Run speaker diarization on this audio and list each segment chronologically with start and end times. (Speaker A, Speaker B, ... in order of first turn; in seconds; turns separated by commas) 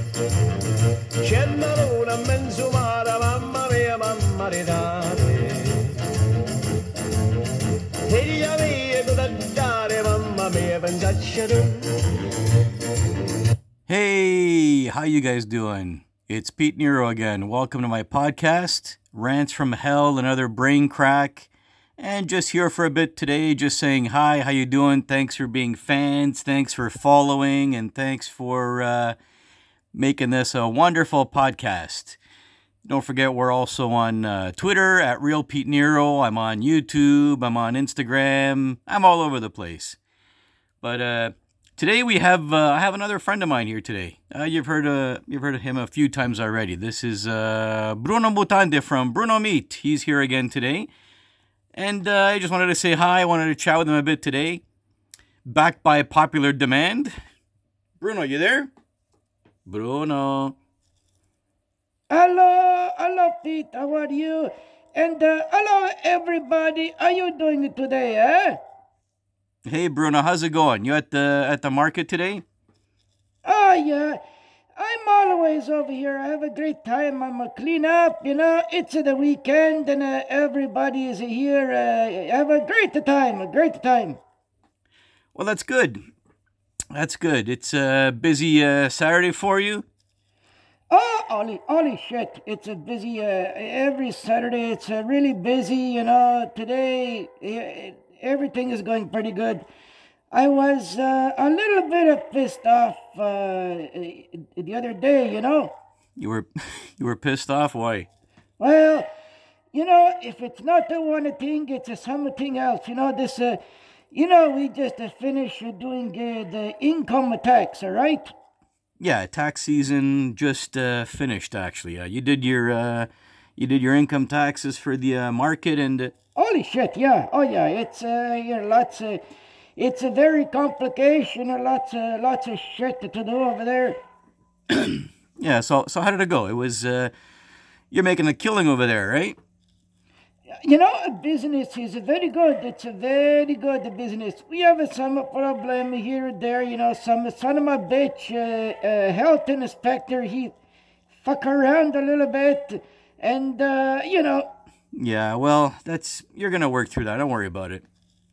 Speaker A: 1.2-6.1, Speaker A: 8.0-12.0, Speaker B: 13.9-29.1, Speaker B: 29.9-32.2, Speaker B: 32.8-40.0, Speaker B: 40.8-50.9, Speaker B: 51.8-54.6, Speaker B: 55.5-57.1, Speaker B: 58.0-58.7, Speaker B: 59.7-60.5, Speaker C: 62.1-68.6, Speaker B: 69.7-72.4, Speaker C: 73.5-74.2, Speaker C: 74.8-84.2, Speaker B: 85.3-86.0, Speaker B: 86.9-89.8, Speaker C: 90.9-99.7, Speaker C: 100.3-105.7, Speaker B: 106.2-106.5, Speaker B: 107.0-108.1, Speaker C: 108.6-109.1, Speaker C: 109.7-113.6, Speaker C: 114.1-118.3, Speaker B: 119.0-126.1, Speaker C: 126.3-129.2, Speaker C: 129.8-133.9, Speaker B: 134.7-137.1, Speaker B: 137.9-139.4, Speaker C: 140.5-150.6, Speaker C: 151.2-154.5, Speaker B: 154.9-157.8